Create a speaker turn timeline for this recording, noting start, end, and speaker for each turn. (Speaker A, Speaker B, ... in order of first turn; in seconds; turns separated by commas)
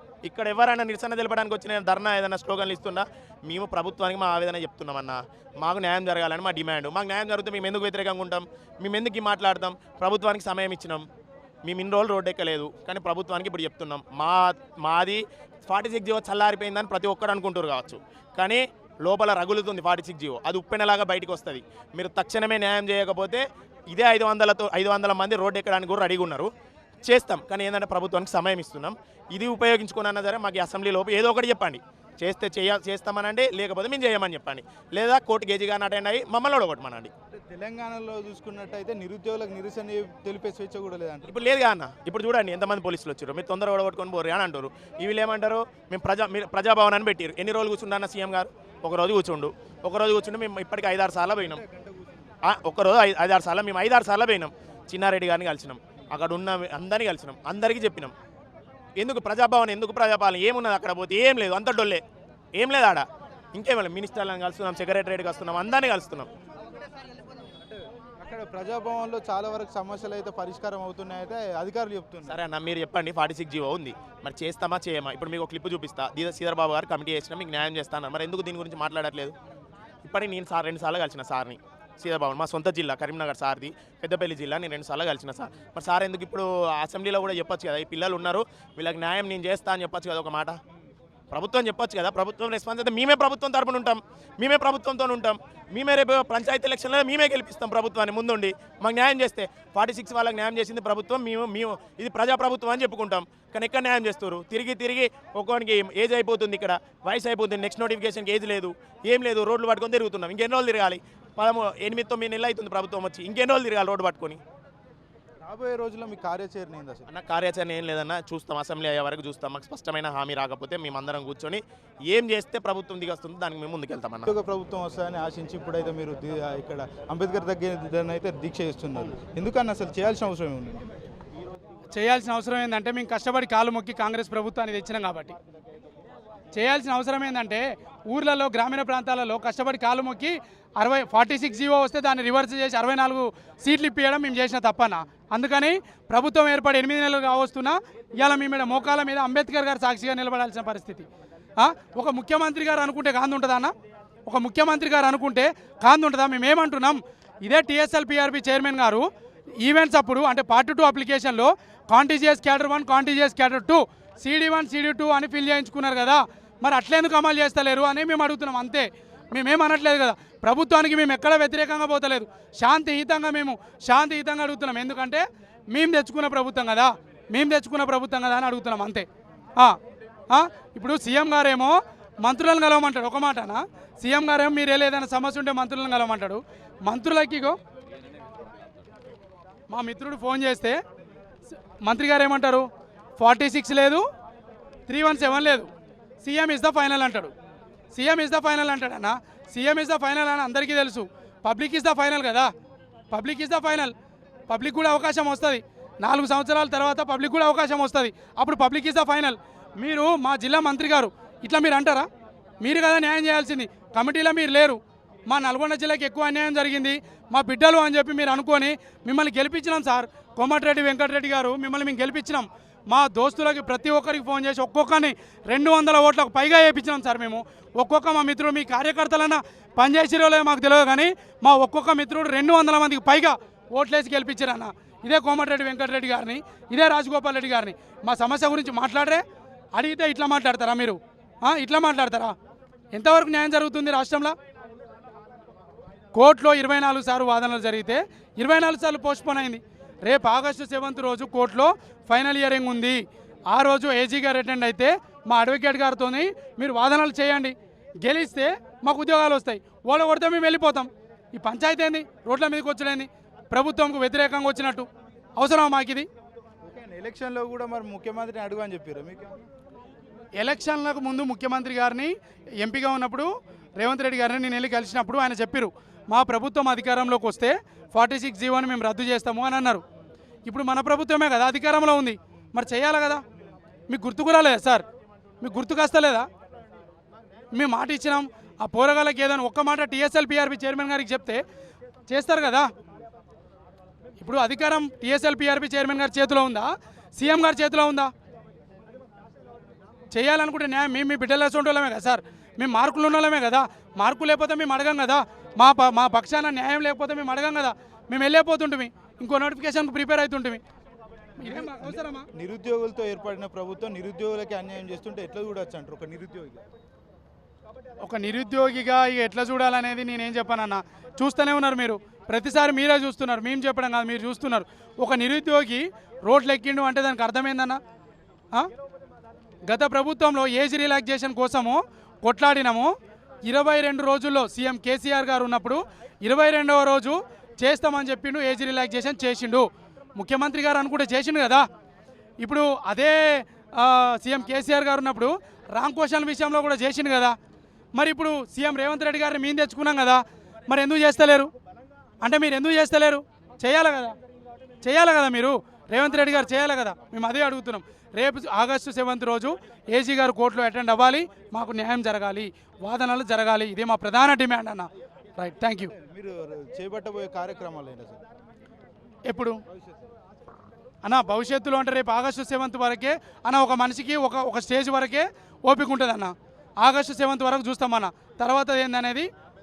Speaker A: 0.2-11.0, Speaker A: 11.6-26.5, Speaker A: 27.0-37.1, Speaker B: 37.3-41.3, Speaker A: 41.2-51.6, Speaker B: 51.4-52.3, Speaker A: 52.5-58.1, Speaker A: 59.0-62.0, Speaker A: 62.5-66.3, Speaker B: 68.2-72.4, Speaker A: 72.2-79.3, Speaker A: 80.0-90.6, Speaker A: 91.3-114.4, Speaker B: 115.4-117.1, Speaker A: 117.1-124.3, Speaker B: 124.2-130.9, Speaker C: 131.9-135.3, Speaker C: 136.5-151.1, Speaker C: 151.6-153.7, Speaker C: 154.3-159.0, Speaker C: 159.6-179.1, Speaker C: 180.3-187.6, Speaker C: 189.7-190.8, Speaker C: 191.8-192.7, Speaker C: 193.2-194.0, Speaker C: 194.9-195.7, Speaker C: 196.2-197.3, Speaker C: 197.9-202.5, Speaker C: 203.1-203.9, Speaker C: 204.5-212.1, Speaker C: 212.6-239.2, Speaker C: 239.7-242.3, Speaker C: 242.9-244.3, Speaker C: 246.1-253.0, Speaker C: 253.5-266.1, Speaker B: 266.6-269.4, Speaker C: 270.4-279.8, Speaker C: 280.5-283.2, Speaker C: 283.9-284.9, Speaker C: 285.4-286.3, Speaker C: 287.5-291.4, Speaker C: 292.1-292.7, Speaker C: 294.2-298.1, Speaker C: 300.1-310.6, Speaker C: 311.4-312.3, Speaker B: 311.4-316.6, Speaker C: 318.0-327.8, Speaker C: 329.7-332.9, Speaker C: 333.4-341.6, Speaker C: 342.4-347.3, Speaker C: 347.9-351.5, Speaker C: 352.2-354.1, Speaker C: 354.8-364.9, Speaker C: 365.4-365.9, Speaker B: 365.9-368.2, Speaker C: 369.3-369.6, Speaker C: 371.0-379.3